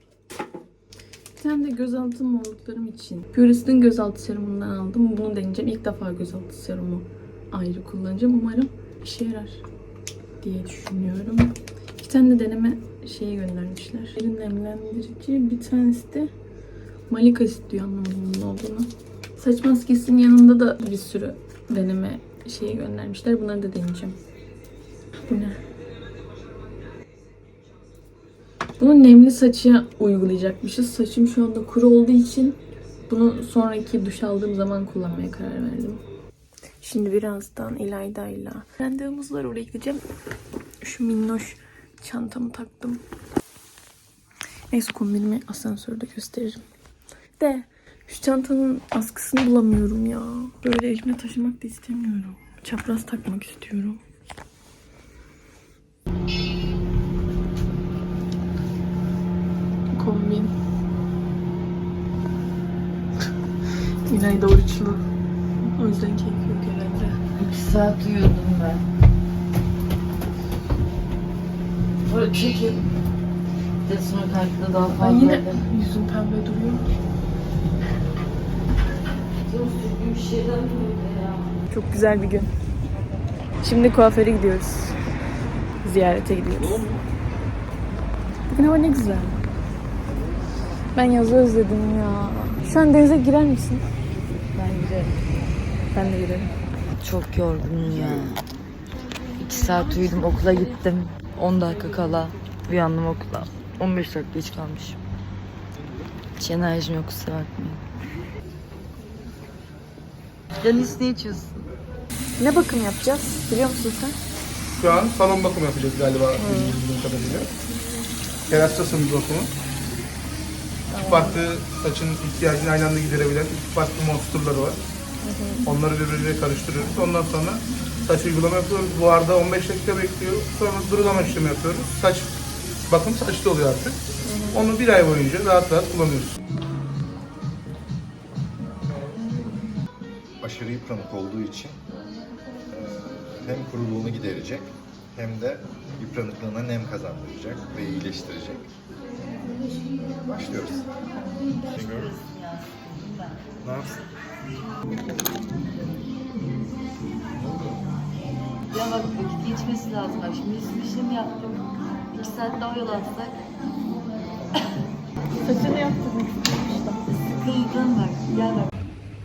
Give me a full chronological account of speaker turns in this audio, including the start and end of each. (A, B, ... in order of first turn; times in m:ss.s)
0:01.4-0:09.7 A
0:10.4-0:16.3 A
0:17.1-0:24.2 A
0:25.3-0:25.6 A
0:28.8-0:36.0 A
0:36.8-0:40.0 A
0:40.8-0:43.0 A
0:44.7-0:46.6 A
0:47.4-0:54.0 A
0:59.9-1:00.5 A
1:04.1-1:05.1 A
1:05.8-1:07.2 A
1:07.4-1:08.8 B
1:12.0-1:12.9 B
1:13.8-1:15.6 B
1:15.0-1:16.8 A
1:19.4-1:21.5 B
1:21.7-1:22.5 A
1:23.6-1:25.0 A
1:25.8-1:26.9 A
1:28.5-1:29.4 A
1:30.9-1:33.9 A
1:34.6-1:35.1 B
1:35.9-1:36.6 A
1:37.0-1:38.4 B
1:39.4-1:45.0 B
1:46.4-1:47.8 B
1:50.6-1:51.7 B
1:52.4-1:54.2 A
1:54.8-1:57.5 C
1:56.4-1:56.8 A
1:58.5-1:59.5 C
2:00.9-2:01.4 A
2:01.1-2:04.8 C
2:05.2-2:05.7 A
2:05.7-2:12.3 C
2:12.9-2:14.0 C
2:14.2-2:14.6 A
2:14.6-2:16.4 C
2:20.4-2:21.8 D
2:22.7-2:28.7 D
2:30.2-2:30.9 D
2:31.4-2:33.4 B
2:31.7-2:32.2 D
2:37.4-2:37.8 D
2:38.7-2:43.4 B
2:45.4-2:47.0 A
2:47.3-2:48.7 B